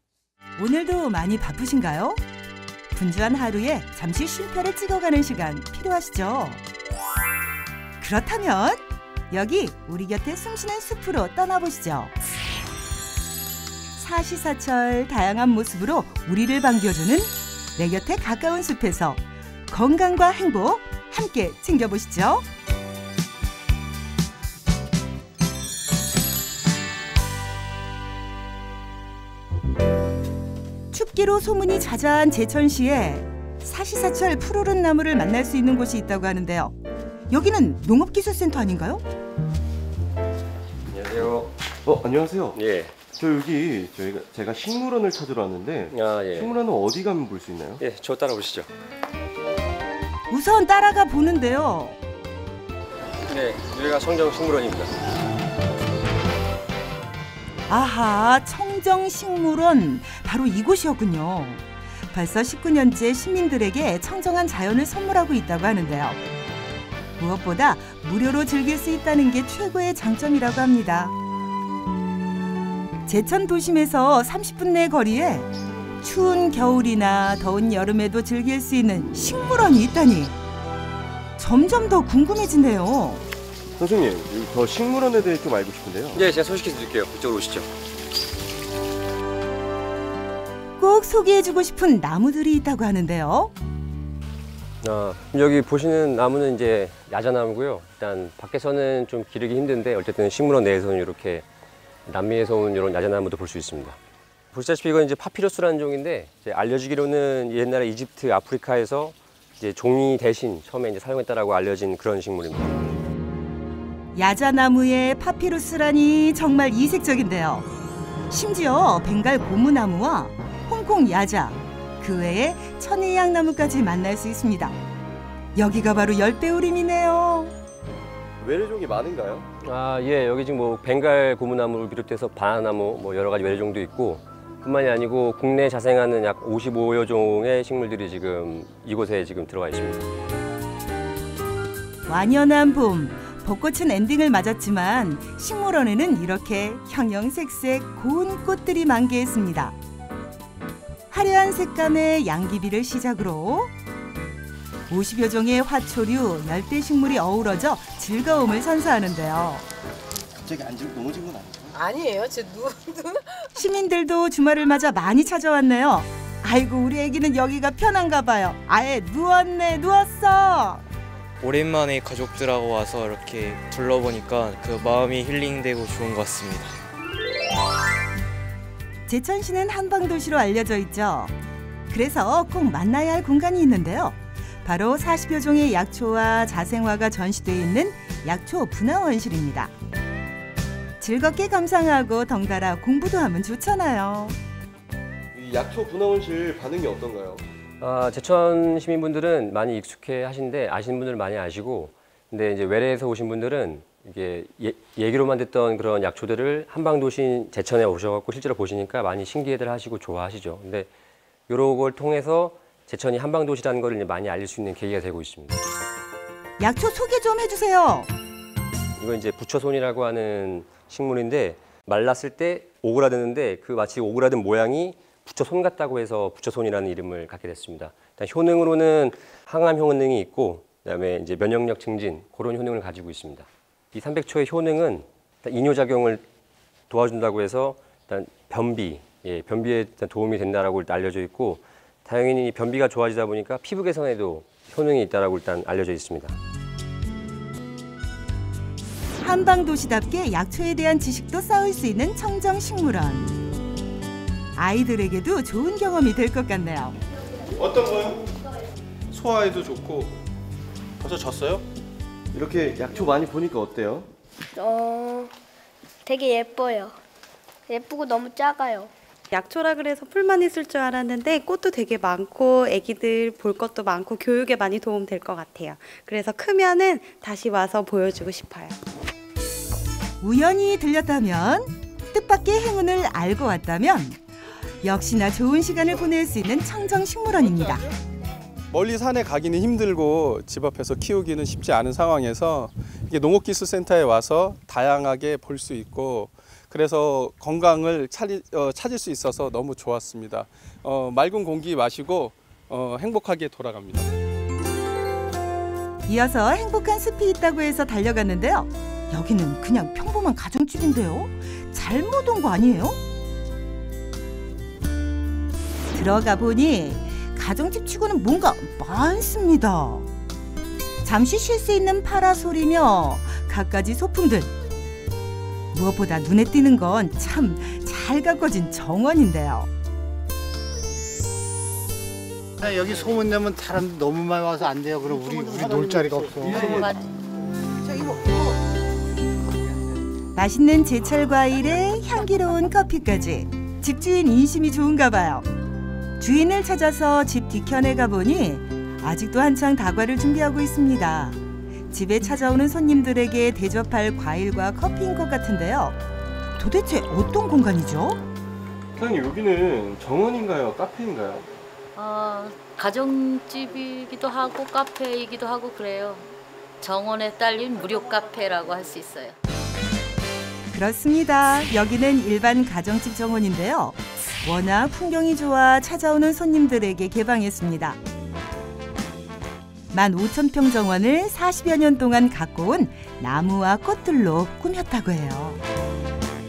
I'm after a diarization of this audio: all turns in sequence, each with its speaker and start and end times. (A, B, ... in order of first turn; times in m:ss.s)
0:00.6-0:02.2 A
0:02.9-0:06.6 A
0:08.0-0:12.1 A
0:14.0-0:22.4 A
0:30.9-0:36.7 A
0:37.3-0:39.0 A
0:40.9-0:41.5 B
0:41.8-0:47.8 C
0:42.5-0:43.0 B
0:45.9-0:46.5 B
0:47.8-0:48.7 B
0:50.3-0:52.0 A
0:53.2-0:54.9 B
0:57.7-1:06.2 A
1:07.2-1:11.1 A
1:13.1-1:15.5 A
1:16.0-1:20.3 A
1:21.4-1:23.2 A
1:23.8-1:26.2 C
1:26.1-1:27.7 B
1:30.8-1:33.5 A
1:34.8-1:41.4 B
1:42.0-1:44.0 B
1:44.5-1:53.0 B
1:54.1-1:57.7 A
1:58.3-2:04.8 A
2:05.6-2:07.5 A
2:08.4-2:09.5 C
2:09.6-2:20.1 B
2:22.1-2:29.8 A
2:31.1-2:33.7 A
2:34.9-2:39.6 A
2:40.4-2:41.8 C
2:42.2-2:42.6 D
2:43.5-2:50.8 A
2:51.4-2:56.8 E
2:59.1-3:01.3 A
3:01.9-3:09.7 A
3:11.0-3:14.4 A
3:15.3-3:17.4 C
3:17.8-3:30.9 B
3:31.5-3:35.6 B
3:36.6-3:38.1 A
3:39.0-3:56.2 B
3:56.9-4:06.4 B
4:09.2-4:13.3 A
4:14.6-4:17.0 A
4:22.3-4:24.1 C
4:24.5-4:25.3 D
4:26.0-4:27.0 D
4:27.7-4:28.9 D
4:29.3-4:38.8 F
4:40.2-4:44.2 A
4:44.8-4:47.9 A
4:47.4-4:47.8 G
4:48.7-5:04.1 G
5:06.1-5:13.0 A
5:15.9-5:20.1 A
5:21.0-5:24.5 A
5:25.7-5:29.7 A
5:32.6-5:36.8 H
5:36.4-5:37.1 I
5:40.3-5:45.4 A
5:46.2-5:51.4 A
5:51.9-5:56.0 A
5:56.6-5:58.2 A
5:59.0-6:01.5 C
6:01.9-6:06.2 I
6:06.8-6:09.4 I
6:10.7-6:18.0 A
6:19.9-6:25.6 A